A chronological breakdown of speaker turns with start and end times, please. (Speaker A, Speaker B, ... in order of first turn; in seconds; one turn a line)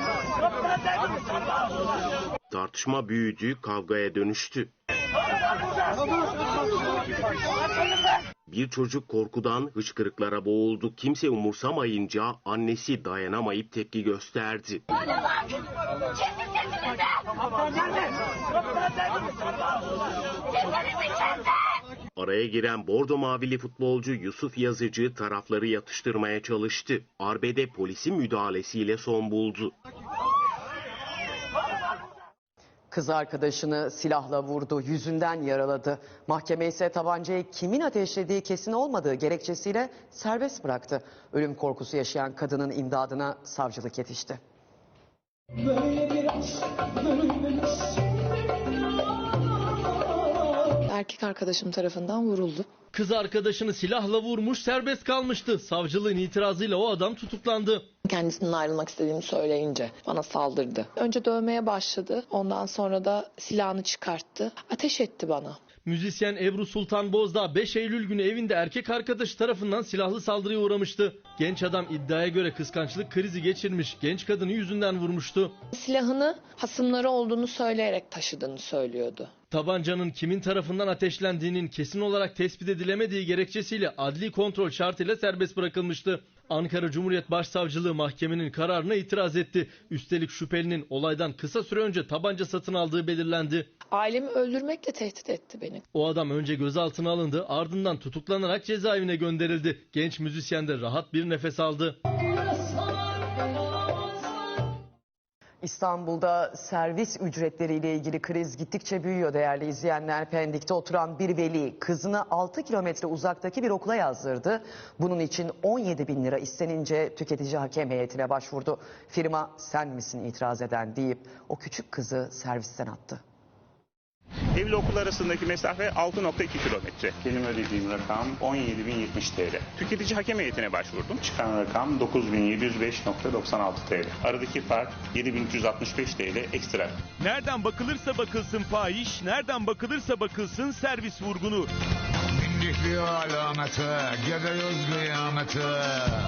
Speaker A: 2.5-4.7
Speaker A: 8.5-14.8
Speaker A: 22.1-29.7
Speaker B: 32.9-44.4
Speaker C: 50.8-52.7
Speaker D: 52.9-57.9
Speaker C: 58.0-65.6
Speaker D: 65.8-75.5
Speaker C: 75.7-79.3
Speaker D: 79.5-93.7
Speaker C: 93.9-95.8
Speaker D: 95.9-102.0
Speaker B: 105.6-123.2
Speaker E: 124.5-137.0
Speaker F: 137.2-141.7
Speaker G: 142.4-146.0